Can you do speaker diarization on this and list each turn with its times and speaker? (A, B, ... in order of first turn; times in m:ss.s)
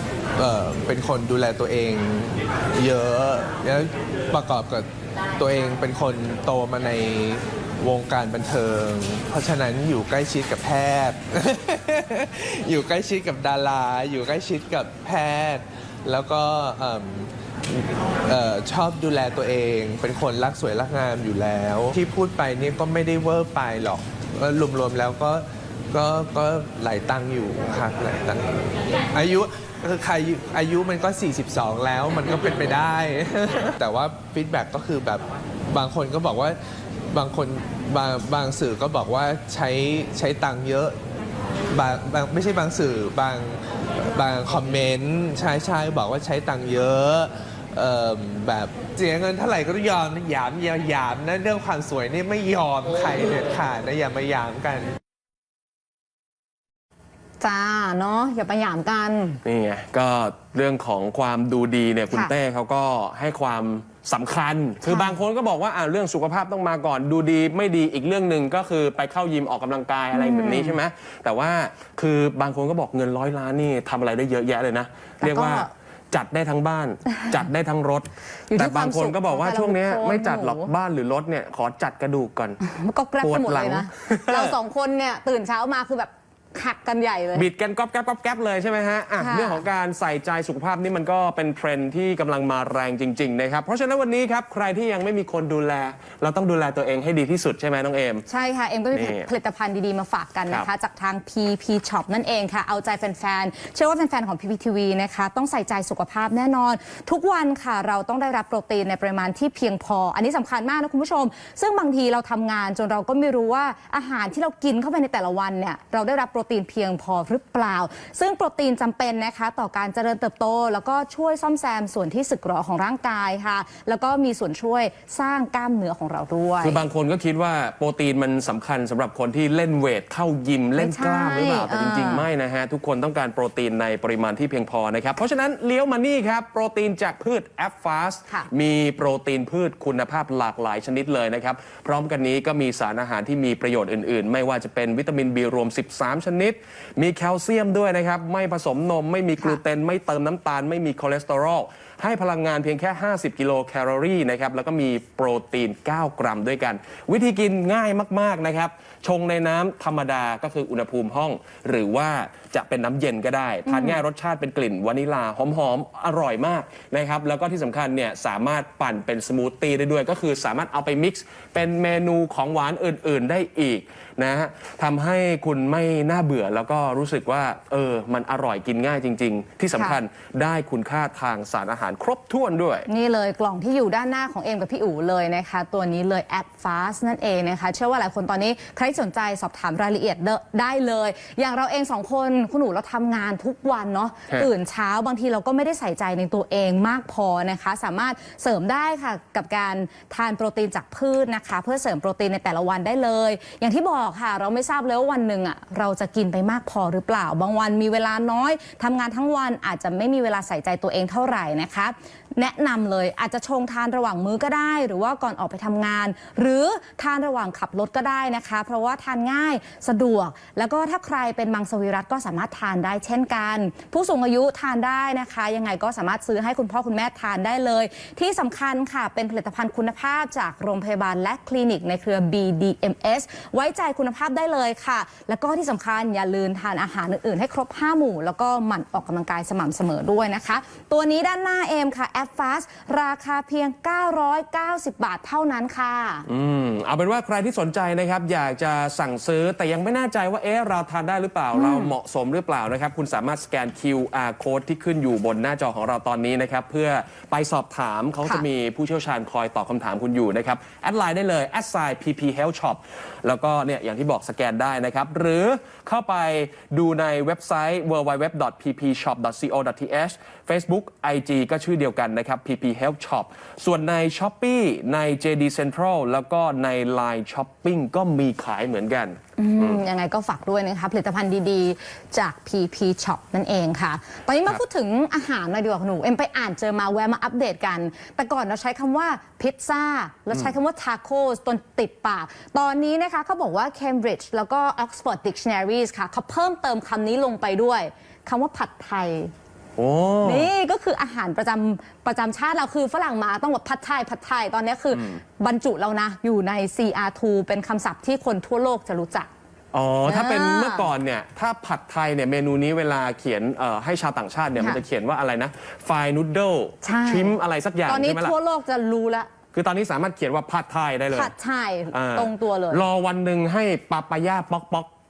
0:00.4-0:36.6 A
0:37.1-0:41.0 A
0:41.7-0:55.0 A
0:57.4-0:59.4 B
0:59.4-1:22.6 C
1:04.8-1:05.1 B
1:10.1-1:10.8 B
1:15.2-1:15.7 B
1:18.5-1:20.7 B
1:22.6-1:27.4 B
1:23.2-1:24.6 C
1:27.4-1:38.2 C
1:29.2-1:29.6 B
1:38.3-2:06.8 B
1:38.9-1:39.3 C
2:06.6-3:02.9 C
2:10.8-2:12.2 B
2:43.6-2:44.0 B
2:59.7-3:00.0 B
3:02.9-4:06.3 B
4:06.3-4:39.8 C
4:11.5-4:11.9 B
4:39.4-4:59.3 B
4:59.8-5:00.5 C
5:00.2-5:09.3 B
5:04.9-5:05.2 C
5:09.7-5:18.4 C
5:10.1-5:10.9 B
5:16.8-5:19.3 B
5:19.5-5:21.3 C
5:21.1-5:22.8 B
5:21.9-5:24.9 C